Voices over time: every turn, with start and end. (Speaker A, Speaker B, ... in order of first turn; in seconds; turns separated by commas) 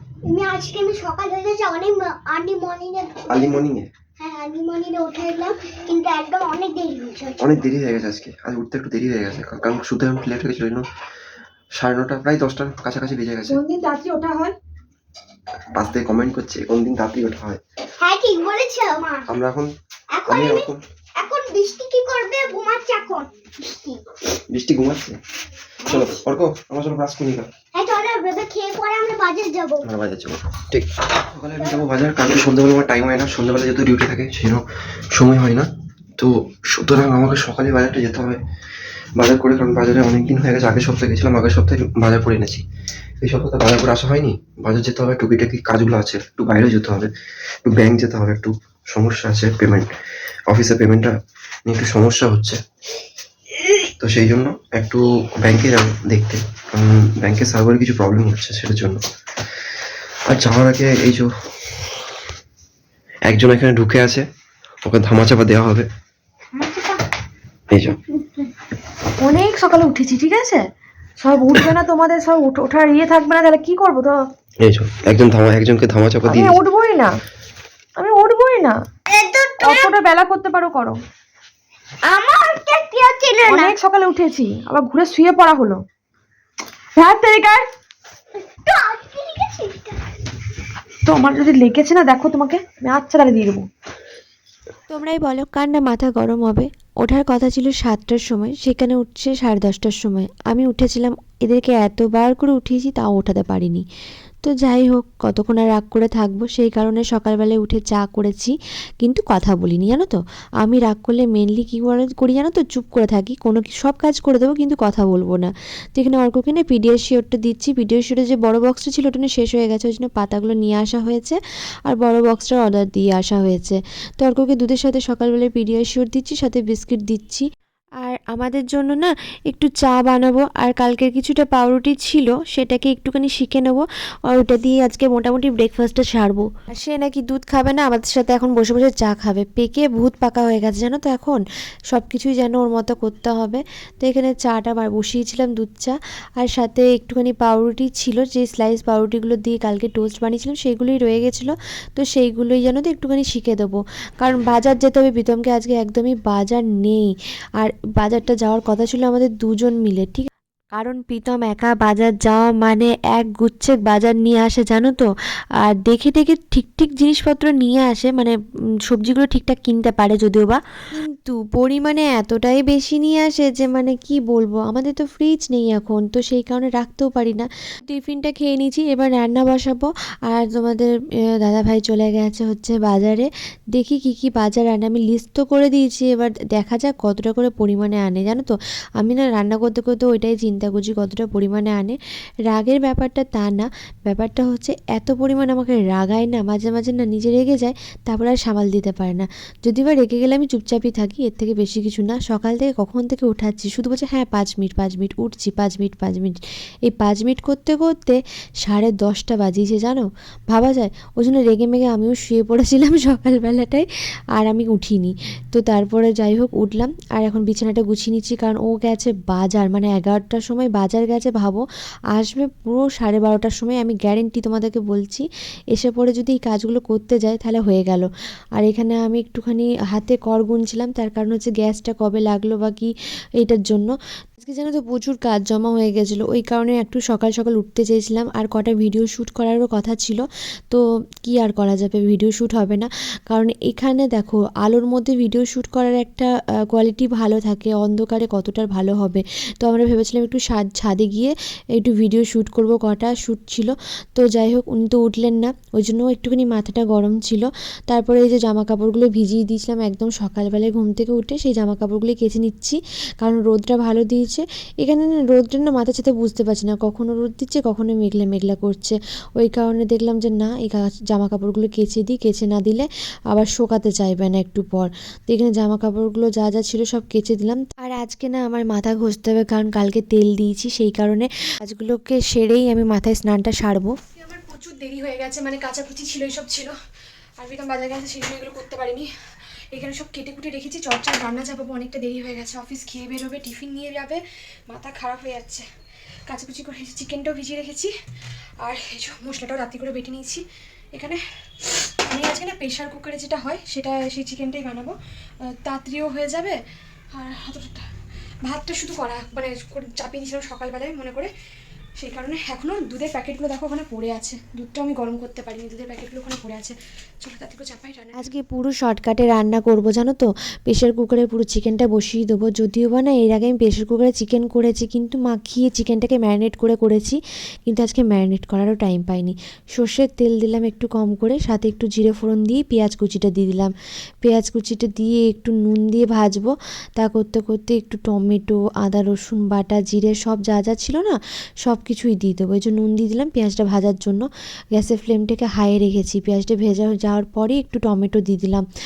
Speaker A: 0.2-3.6, Speaker B: 3.3-3.9, Speaker A: 4.2-7.4, Speaker B: 7.4-10.9, Speaker B: 11.8-13.6, Speaker C: 13.5-14.5, Speaker B: 15.7-17.6, Speaker A: 18.0-19.2, Speaker B: 19.3-19.7, Speaker A: 20.1-24.0, Speaker B: 20.3-20.8, Speaker B: 24.5-25.2, Speaker B: 25.8-27.5, Speaker A: 27.7-29.8, Speaker B: 29.8-38.4, Speaker B: 39.2-42.6, Speaker B: 43.2-47.1, Speaker B: 47.7-49.9, Speaker B: 50.5-51.1, Speaker B: 51.7-52.6, Speaker B: 54.0-59.0, Speaker B: 60.3-61.3, Speaker B: 63.3-64.2, Speaker B: 64.8-65.9, Speaker A: 66.6-67.0, Speaker B: 67.7-68.0, Speaker C: 69.2-70.6, Speaker C: 71.2-74.2, Speaker B: 74.6-76.6, Speaker C: 76.3-77.1, Speaker C: 78.0-78.8, Speaker A: 79.1-79.9, Speaker C: 79.6-81.0, Speaker A: 82.0-83.8, Speaker C: 83.5-85.8, Speaker C: 87.0-87.7, Speaker A: 88.3-90.1, Speaker C: 91.0-93.7, Speaker D: 94.9-103.8, Speaker D: 104.4-127.5, Speaker D: 128.0-165.1, Speaker D: 165.6-168.3, Speaker D: 168.8-192.0, Speaker D: 192.5-213.8, Speaker D: 214.4-283.9, Speaker C: 284.1-286.7, Speaker C: 287.4-289.1, Speaker C: 289.7-295.7, Speaker C: 296.3-297.9, Speaker C: 298.6-300.4, Speaker C: 300.9-304.9, Speaker C: 305.5-306.6, Speaker C: 307.1-307.8, Speaker C: 308.4-311.3, Speaker C: 312.0-318.3, Speaker D: 318.1-348.6